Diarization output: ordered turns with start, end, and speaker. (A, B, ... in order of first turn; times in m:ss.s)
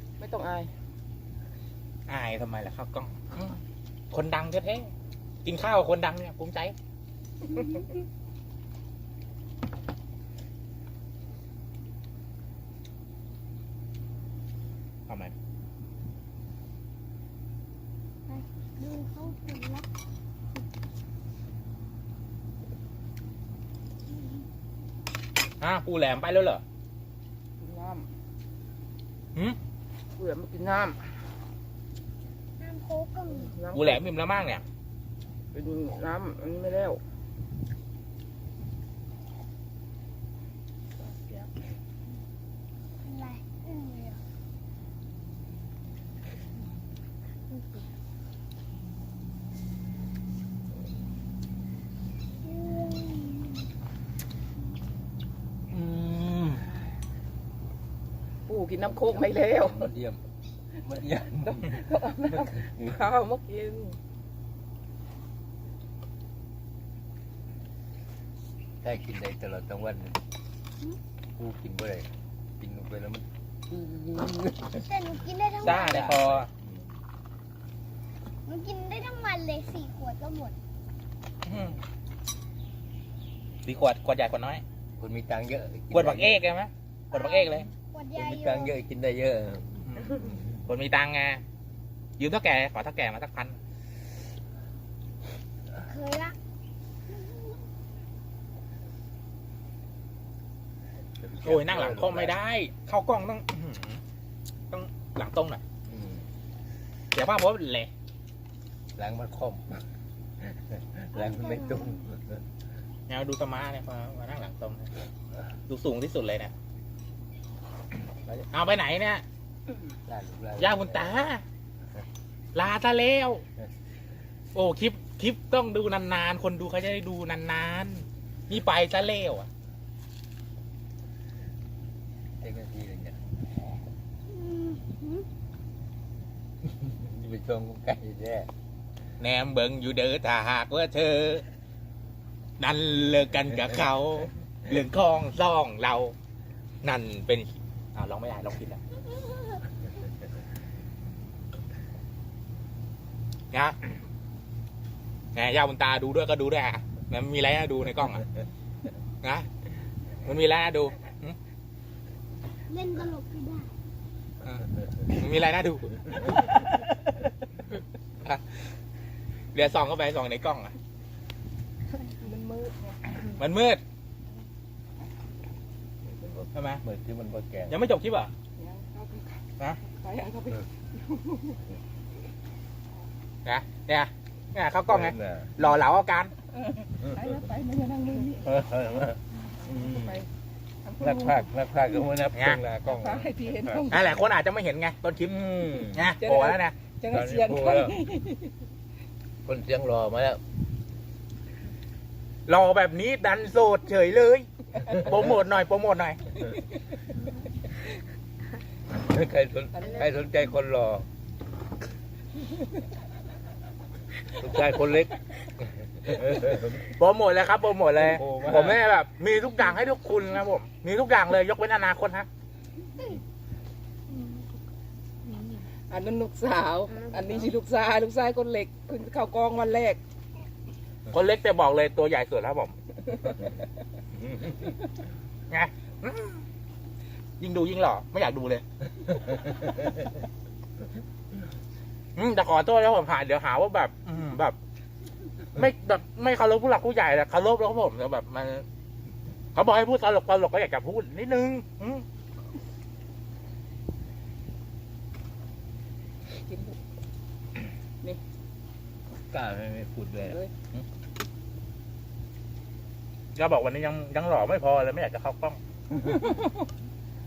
0:00.2-0:00.7 A
0:02.1-0:03.6 B
0:04.1-0:04.9 B
0:05.4-0:06.7 B
0:15.1-0:15.3 B
0:18.3-0:19.9 C
0:24.1-0:24.4 C
0:25.6-0:26.6 B
0:27.6-0:28.1 A
0:30.2-0:31.0 A
0:32.6-0:33.5 C
0:33.4-0:34.0 A
0:33.7-0:34.6 B
0:35.5-0:37.0 A
0:43.0-0:44.2 C
0:52.4-0:53.6 C
0:55.7-0:56.6 D
0:58.5-0:59.8 A
0:58.9-1:00.2 D
1:00.8-1:01.8 D
1:01.4-1:04.0 A
1:02.4-1:03.0 D
1:08.8-1:10.2 D
1:11.4-1:12.1 D
1:12.6-1:14.8 D
1:14.7-1:16.1 C
1:15.6-1:16.8 D
1:15.6-1:16.5 B
1:18.4-1:20.5 C
1:21.4-1:21.8 B
1:23.6-1:24.6 B
1:25.0-1:26.4 D
1:25.9-1:27.7 B
1:27.1-1:28.7 C
1:28.1-1:30.5 D
1:29.9-1:31.4 B
1:32.2-1:33.6 B
1:35.8-1:36.4 C
1:41.1-1:42.4 D
1:41.4-1:44.0 B
1:44.7-1:45.6 B
1:45.8-1:46.3 D
1:47.1-1:47.9 B
1:49.0-1:49.8 D
1:50.4-1:52.4 D
1:51.1-1:52.0 C
1:53.1-1:54.9 B
1:55.7-1:56.5 B
1:58.3-1:59.2 B
2:00.1-2:01.2 D
2:00.6-2:01.4 B
2:02.5-2:03.4 B
2:04.5-2:09.5 B
2:12.4-2:13.2 D
2:14.3-2:15.2 C
2:16.6-2:18.5 D
2:19.2-2:21.4 B
2:22.6-2:26.1 B
2:26.8-2:28.8 B
2:33.5-2:33.8 B
2:35.3-2:38.2 B
2:39.2-2:39.5 B
2:40.2-2:41.4 B
2:42.7-2:43.7 C
2:44.4-2:46.8 B
2:48.2-2:48.7 B
2:49.5-2:50.7 B
2:52.2-2:53.0 A
2:53.3-2:53.8 B
2:56.2-2:57.8 D
2:56.5-2:56.8 B
2:57.7-2:58.3 B
2:58.6-3:01.5 A
3:03.4-3:06.3 B
3:04.9-3:05.5 D
3:06.5-3:08.5 A
3:08.4-3:10.2 D
3:09.6-3:10.3 A
3:10.8-3:11.5 A
3:11.0-3:14.0 D
3:12.3-3:12.6 B
3:12.8-3:14.1 A
3:13.9-3:16.8 B
3:15.3-3:16.1 D
3:16.2-3:18.5 A
3:17.1-3:18.0 D
3:19.4-3:20.4 D
3:22.5-3:26.4 B
3:28.9-3:31.1 D
3:29.7-3:30.1 A
3:34.3-3:35.2 D
3:36.0-3:36.9 D
3:36.8-3:42.3 B
3:38.0-3:38.8 D
3:45.9-3:50.0 A
3:51.1-3:52.7 B
3:55.5-3:56.4 B
3:57.4-3:58.6 B
4:02.2-4:04.6 B
4:05.5-4:08.6 B
4:09.5-4:12.0 B
4:16.5-4:16.7 A
4:19.3-4:20.4 D
4:20.2-4:20.5 A
4:23.4-4:25.6 B